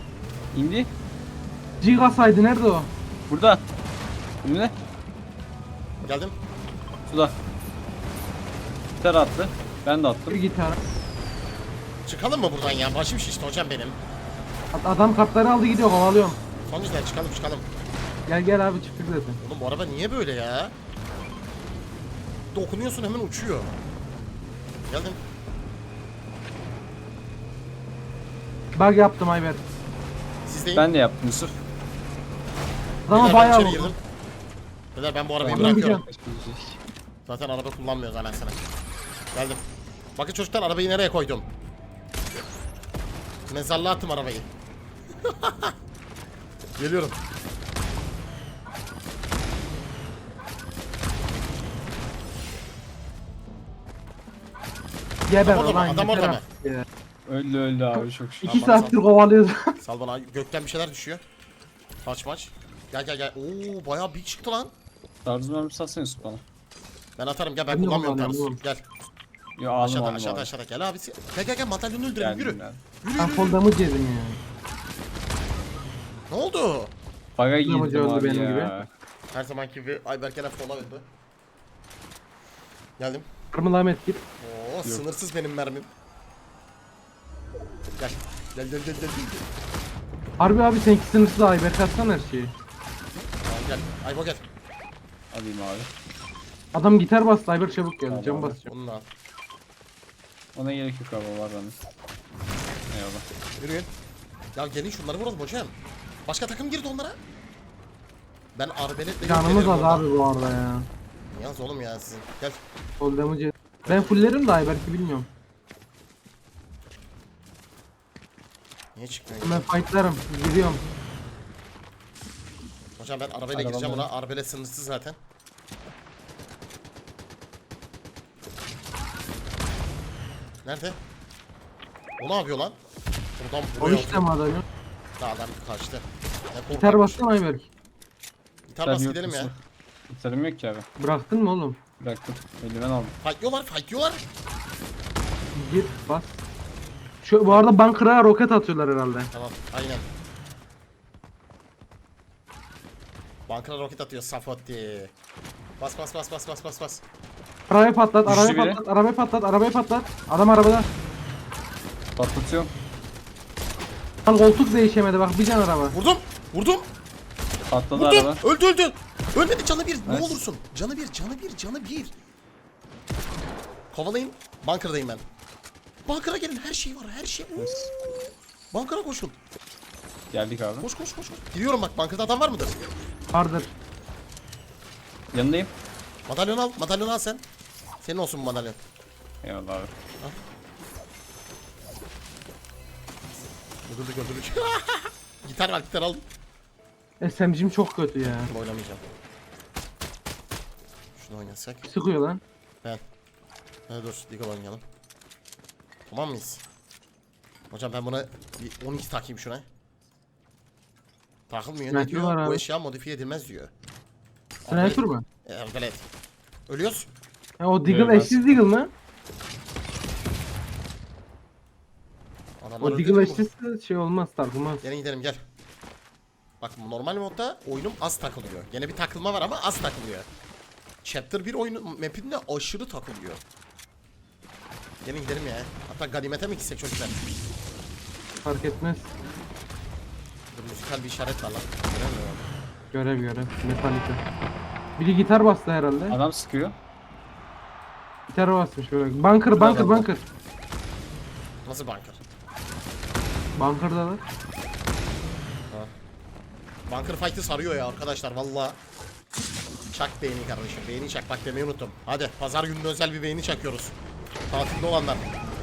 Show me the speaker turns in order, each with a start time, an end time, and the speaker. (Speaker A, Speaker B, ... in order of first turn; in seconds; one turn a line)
Speaker A: 0.5-0.9
Speaker B: 1.8-2.9
Speaker A: 3.3-3.6
Speaker A: 4.4-4.7
Speaker C: 6.0-6.3
Speaker A: 7.1-7.3
Speaker A: 9.0-10.4
Speaker B: 10.3-10.8
Speaker C: 12.1-14.0
Speaker B: 14.7-16.4
Speaker C: 16.6-17.7
Speaker B: 18.3-19.4
Speaker C: 19.4-20.7
Speaker C: 22.5-23.7
Speaker C: 24.9-25.2
Speaker B: 28.8-29.6
Speaker C: 30.4-30.9
Speaker A: 30.7-31.5
Speaker B: 33.1-33.9
Speaker C: 33.1-34.0
Speaker C: 34.9-36.0
Speaker A: 35.4-36.8
Speaker B: 35.5-36.0
Speaker C: 37.3-38.7
Speaker C: 39.3-39.6
Speaker C: 40.1-41.5
Speaker C: 43.5-44.5
Speaker C: 45.2-45.7
Speaker C: 46.8-47.2
Speaker B: 55.3-56.9
Speaker C: 55.4-56.4
Speaker A: 57.2-58.7
Speaker C: 58.4-59.0
Speaker B: 58.4-59.8
Speaker C: 59.8-61.2
Speaker C: 62.0-64.7
Speaker A: 65.2-66.4
Speaker C: 67.2-68.8
Speaker B: 67.7-68.6
Speaker A: 69.6-70.5
Speaker C: 69.8-73.6
Speaker A: 72.2-72.8
Speaker B: 73.2-74.4
Speaker C: 76.3-76.9
Speaker A: 77.4-78.9
Speaker B: 77.6-78.7
Speaker C: 79.3-81.0
Speaker C: 83.0-83.2
Speaker B: 83.5-84.2
Speaker C: 84.4-85.9
Speaker C: 88.0-89.4
Speaker B: 90.4-92.5
Speaker C: 93.4-94.4
Speaker A: 95.3-95.9
Speaker B: 96.7-98.7
Speaker A: 98.1-98.6
Speaker C: 98.6-99.0
Speaker A: 100.5-101.8
Speaker A: 102.9-103.2
Speaker C: 103.6-103.9
Speaker C: 104.5-105.7
Speaker C: 106.2-107.2
Speaker C: 108.5-110.0
Speaker B: 109.2-110.9
Speaker C: 111.3-112.6
Speaker B: 113.0-115.3
Speaker C: 119.0-119.7
Speaker B: 119.4-120.8
Speaker C: 123.0-125.2
Speaker A: 123.5-124.1
Speaker C: 130.6-131.0
Speaker C: 132.2-132.8
Speaker C: 133.4-134.2
Speaker B: 133.8-134.6
Speaker C: 135.2-137.3
Speaker B: 136.7-137.7
Speaker C: 138.7-139.5
Speaker A: 138.8-139.5
Speaker A: 140.1-140.8
Speaker B: 141.0-141.8
Speaker A: 142.0-143.1
Speaker C: 143.2-144.2
Speaker B: 145.6-146.4
Speaker B: 147.2-149.3
Speaker C: 149.3-150.1
Speaker C: 153.5-155.1
Speaker C: 155.8-157.0
Speaker B: 157.7-160.9
Speaker A: 158.2-158.8
Speaker A: 162.2-162.7
Speaker B: 164.2-166.0
Speaker C: 165.9-166.9
Speaker A: 167.7-168.4
Speaker C: 167.9-172.1
Speaker A: 170.1-170.4
Speaker C: 173.9-175.2
Speaker C: 176.1-177.7
Speaker A: 177.6-177.9
Speaker C: 178.7-179.3
Speaker A: 180.3-180.9
Speaker C: 180.8-182.8
Speaker B: 183.3-183.7
Speaker A: 185.3-185.7
Speaker C: 186.3-187.4
Speaker C: 188.0-188.8
Speaker A: 189.4-189.9
Speaker C: 193.8-196.2
Speaker B: 197.2-198.5
Speaker C: 198.4-199.0
Speaker C: 201.2-201.8
Speaker B: 201.8-202.4
Speaker C: 203.9-204.8
Speaker C: 206.1-206.6
Speaker C: 207.7-209.6
Speaker C: 211.5-213.7
Speaker B: 211.9-212.6
Speaker C: 214.6-216.0
Speaker B: 214.7-215.2
Speaker C: 216.7-217.1
Speaker B: 217.6-218.9
Speaker A: 217.8-218.4
Speaker C: 222.6-223.5
Speaker B: 222.8-224.8
Speaker C: 224.8-225.4
Speaker C: 226.6-230.3
Speaker C: 231.0-233.4
Speaker C: 235.0-237.2
Speaker B: 238.4-239.1
Speaker C: 240.5-242.5
Speaker B: 242.9-244.2
Speaker B: 245.0-246.2
Speaker A: 246.1-246.8
Speaker B: 248.3-250.2
Speaker C: 251.7-252.2
Speaker B: 253.6-254.2
Speaker C: 256.9-258.8
Speaker C: 259.9-263.9
Speaker C: 264.5-265.2